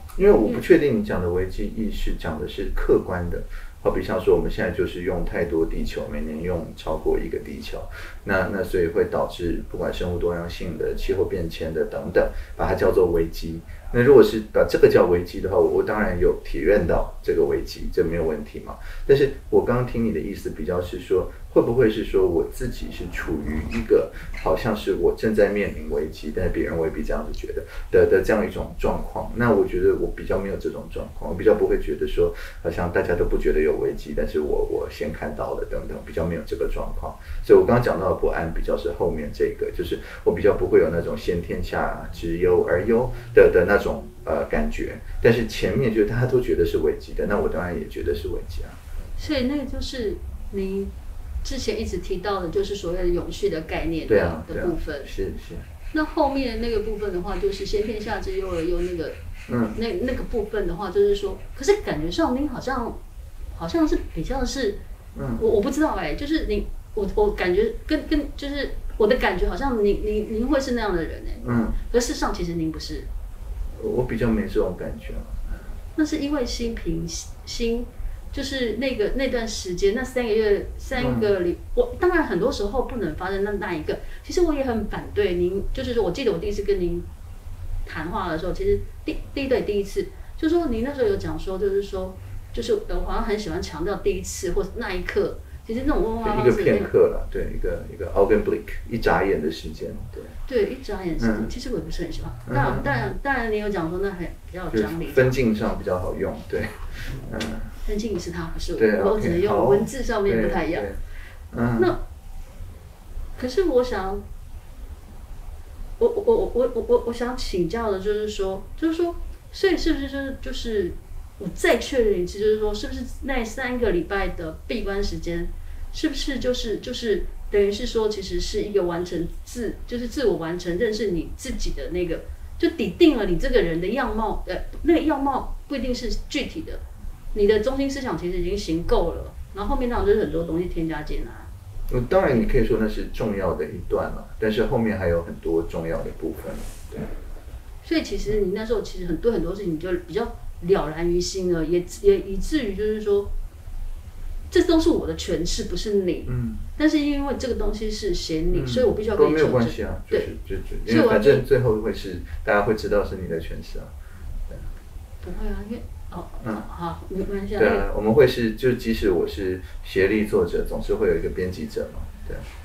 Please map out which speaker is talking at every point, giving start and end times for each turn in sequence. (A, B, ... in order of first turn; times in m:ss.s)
0:00.2-0:48.8 A
0:49.2-0:50.9 B
0:51.4-0:55.1 B
0:54.0-0:55.7 A
0:55.9-0:59.2 B
0:59.5-0:59.7 A
0:59.7-1:03.0 B
1:03.5-1:04.8 B
1:05.1-1:05.4 A
1:05.4-1:13.1 B
1:11.4-1:11.8 A
1:13.7-1:15.6 A
1:16.0-1:27.0 B
1:21.0-1:21.3 A
1:27.8-1:36.9 B
1:36.2-1:40.4 A
1:40.4-1:45.3 B
1:41.2-1:41.5 A
1:42.4-1:42.9 A
1:44.7-1:47.8 A
1:47.8-1:50.9 B
1:48.8-1:51.9 A
1:53.4-1:54.2 B
1:56.0-2:16.8 B
2:17.3-2:21.5 B
2:21.9-2:27.1 A
2:27.8-2:33.3 B
2:34.5-2:40.3 B
2:36.3-2:36.6 A
2:38.5-2:43.9 A
2:40.8-2:41.4 B
2:45.2-2:47.8 B
2:46.4-2:46.7 A
2:47.6-2:52.5 A